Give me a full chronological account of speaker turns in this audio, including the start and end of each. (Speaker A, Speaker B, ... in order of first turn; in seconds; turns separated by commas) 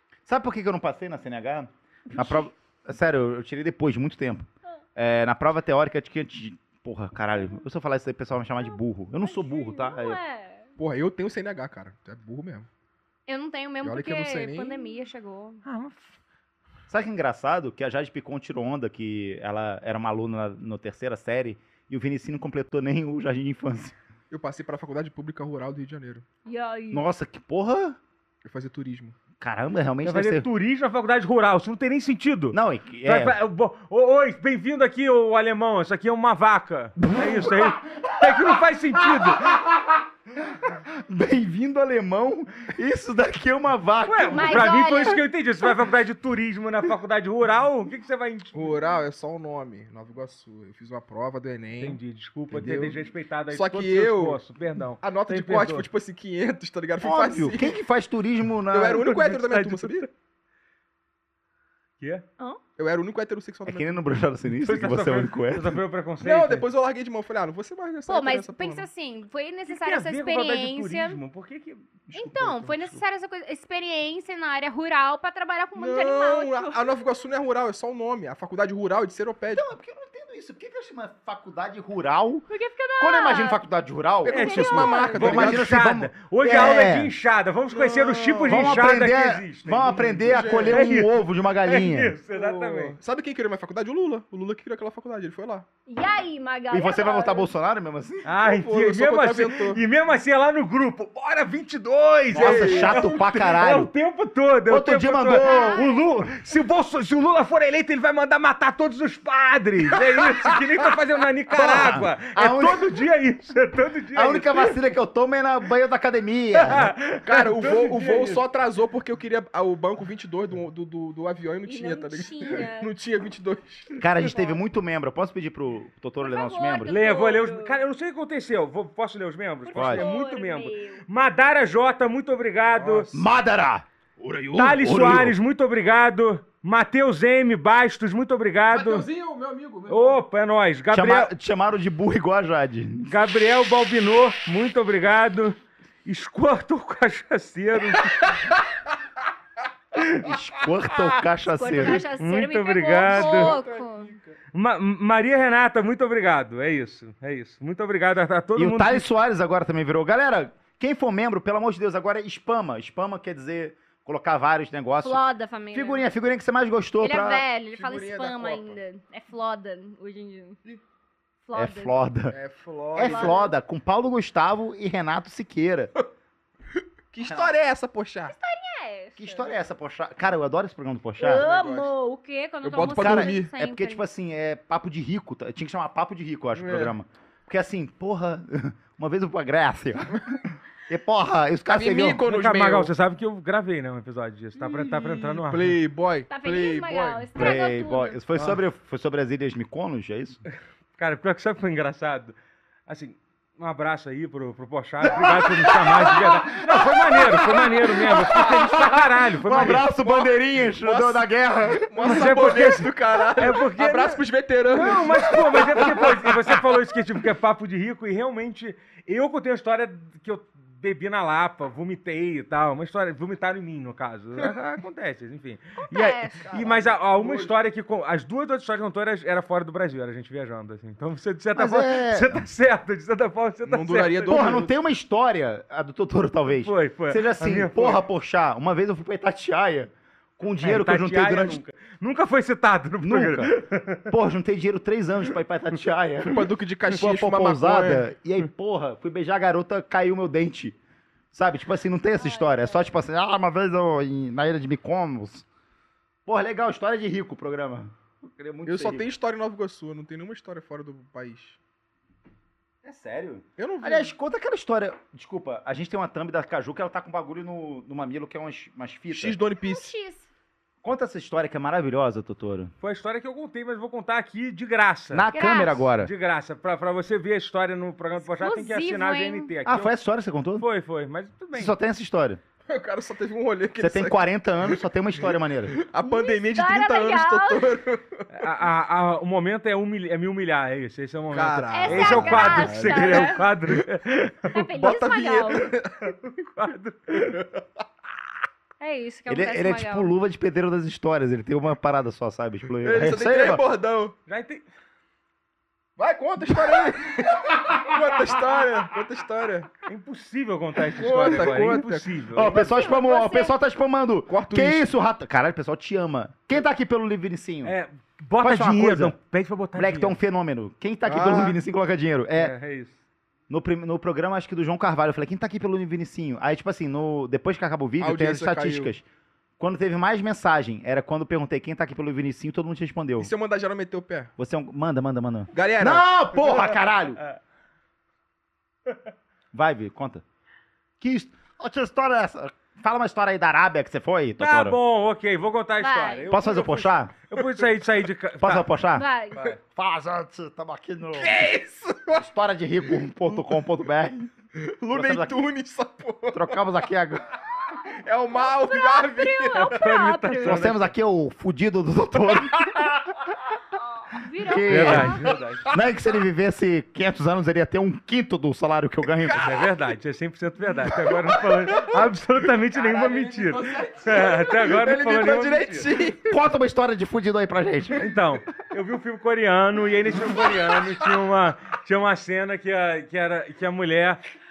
Speaker A: 0.3-10.2, Speaker B: 2.1-2.4, Speaker B: 8.6-10.7, Speaker C: 10.8-12.7, Speaker B: 13.3-15.6, Speaker C: 13.8-14.9, Speaker D: 15.6-16.1, Speaker A: 16.9-23.9, Speaker C: 24.3-26.3, Speaker B: 26.4-27.1, Speaker A: 26.9-28.0, Speaker C: 28.4-29.2, Speaker A: 29.4-30.5, Speaker D: 30.0-39.6, Speaker A: 32.5-33.4, Speaker A: 37.0-44.9, Speaker D: 44.0-48.8, Speaker B: 44.3-45.2, Speaker C: 48.5-52.0, Speaker D: 51.8-55.9, Speaker A: 52.5-53.0, Speaker C: 53.5-54.4, Speaker C: 55.0-57.8, Speaker A: 57.0-59.1, Speaker C: 58.7-60.1, Speaker D: 59.0-60.1, Speaker C: 62.8-64.0, Speaker A: 63.6-65.8, Speaker D: 64.5-66.7, Speaker C: 66.2-68.9, Speaker B: 68.1-71.2, Speaker D: 69.7-72.1, Speaker C: 72.1-73.0, Speaker B: 72.1-76.9, Speaker C: 75.8-79.7, Speaker A: 79.5-82.5, Speaker B: 82.5-83.6, Speaker A: 83.0-87.1, Speaker C: 84.3-85.7, Speaker B: 84.3-85.3, Speaker D: 84.3-93.0, Speaker C: 87.7-88.8, Speaker A: 88.5-92.2, Speaker C: 89.9-90.9, Speaker C: 92.3-95.7, Speaker B: 95.9-97.5, Speaker A: 96.7-98.3, Speaker D: 98.2-114.7, Speaker C: 98.4-99.8, Speaker A: 102.3-103.9, Speaker C: 102.3-103.1, Speaker A: 104.7-105.8, Speaker B: 105.3-106.1, Speaker A: 111.5-113.0, Speaker A: 114.1-116.9, Speaker D: 116.5-118.4, Speaker C: 117.2-124.0, Speaker B: 121.7-122.9, Speaker A: 124.0-127.0, Speaker B: 124.2-124.6, Speaker B: 126.2-127.8, Speaker D: 126.9-133.1, Speaker B: 129.7-131.0, Speaker A: 129.7-130.1, Speaker C: 132.7-133.2, Speaker A: 133.1-135.4, Speaker D: 134.6-139.1, Speaker C: 138.7-140.2, Speaker D: 139.9-141.3, Speaker A: 140.9-143.1, Speaker D: 143.1-148.3, Speaker A: 150.2-152.0, Speaker B: 151.4-154.1, Speaker D: 152.2-153.6, Speaker C: 153.1-154.4, Speaker D: 154.5-159.1, Speaker A: 158.6-167.4, Speaker B: 165.0-166.1, Speaker B: 167.0-170.6, Speaker C: 167.7-168.8, Speaker B: 171.4-172.0, Speaker A: 171.5-172.3, Speaker C: 172.3-173.4, Speaker A: 172.9-175.9, Speaker B: 173.0-173.5, Speaker C: 177.1-178.3, Speaker A: 177.2-177.5, Speaker B: 178.3-179.5, Speaker A: 179.2-181.4, Speaker B: 181.2-184.1, Speaker C: 181.2-181.9, Speaker C: 182.6-183.5, Speaker A: 182.8-192.2, Speaker C: 186.6-186.9, Speaker C: 191.7-192.9, Speaker D: 192.3-195.8, Speaker C: 194.6-197.3, Speaker B: 196.3-198.2, Speaker A: 197.4-200.4, Speaker D: 201.0-202.3, Speaker D: 202.9-209.9, Speaker A: 206.2-212.3, Speaker C: 209.8-216.6, Speaker D: 212.0-234.4, Speaker B: 225.8-226.5, Speaker C: 226.5-227.6, Speaker A: 231.6-232.4, Speaker C: 233.7-234.8, Speaker A: 234.3-241.6, Speaker D: 236.6-238.0, Speaker D: 240.6-244.1, Speaker A: 243.0-243.5, Speaker A: 244.1-250.8, Speaker C: 246.3-248.1, Speaker A: 251.3-255.4, Speaker B: 252.1-252.9, Speaker A: 256.3-259.1, Speaker C: 258.6-261.6, Speaker A: 262.8-269.4, Speaker C: 263.6-264.1, Speaker C: 269.1-269.9, Speaker B: 269.6-270.3, Speaker A: 270.8-272.7, Speaker D: 272.8-275.3, Speaker A: 275.1-276.1, Speaker B: 275.3-275.9, Speaker D: 276.0-279.9, Speaker B: 278.4-279.5, Speaker A: 279.6-280.6, Speaker D: 280.6-281.7, Speaker A: 281.5-282.4, Speaker C: 282.7-288.3, Speaker A: 283.8-285.8, Speaker B: 286.0-287.7, Speaker D: 288.3-294.9, Speaker C: 291.3-293.4, Speaker B: 291.7-293.5, Speaker B: 294.5-295.7, Speaker C: 294.7-296.2, Speaker D: 296.0-297.4, Speaker B: 298.8-300.1, Speaker A: 299.3-303.6, Speaker C: 302.8-304.1, Speaker D: 304.3-304.6, Speaker C: 306.0-309.7, Speaker D: 309.9-312.6, Speaker C: 310.9-312.2, Speaker A: 312.3-317.8, Speaker B: 312.4-313.6, Speaker C: 314.3-314.9, Speaker D: 317.6-320.2, Speaker A: 318.4-319.2, Speaker A: 319.7-322.6, Speaker C: 321.1-321.6, Speaker D: 322.4-322.9, Speaker A: 323.5-329.0, Speaker C: 328.0-328.9, Speaker A: 329.6-333.3, Speaker C: 333.2-334.3, Speaker A: 334.4-337.2, Speaker C: 335.5-336.1, Speaker A: 339.5-340.2, Speaker A: 341.0-344.8, Speaker D: 344.4-348.7, Speaker B: 345.8-346.3, Speaker A: 346.3-347.1, Speaker A: 348.4-349.1, Speaker B: 348.9-349.4, Speaker A: 349.7-351.4, Speaker C: 351.1-352.3, Speaker A: 352.2-354.3, Speaker C: 354.6-356.6, Speaker A: 354.9-355.4, Speaker A: 356.3-357.4, Speaker C: 357.7-359.9, Speaker B: 358.3-360.6, Speaker D: 359.7-360.9, Speaker A: 360.4-363.0, Speaker B: 364.0-365.2, Speaker A: 364.4-369.5, Speaker D: 364.7-365.6, Speaker C: 364.9-365.7, Speaker D: 369.4-375.9, Speaker C: 370.9-372.0, Speaker C: 372.7-376.4, Speaker A: 376.2-378.1, Speaker D: 378.0-384.2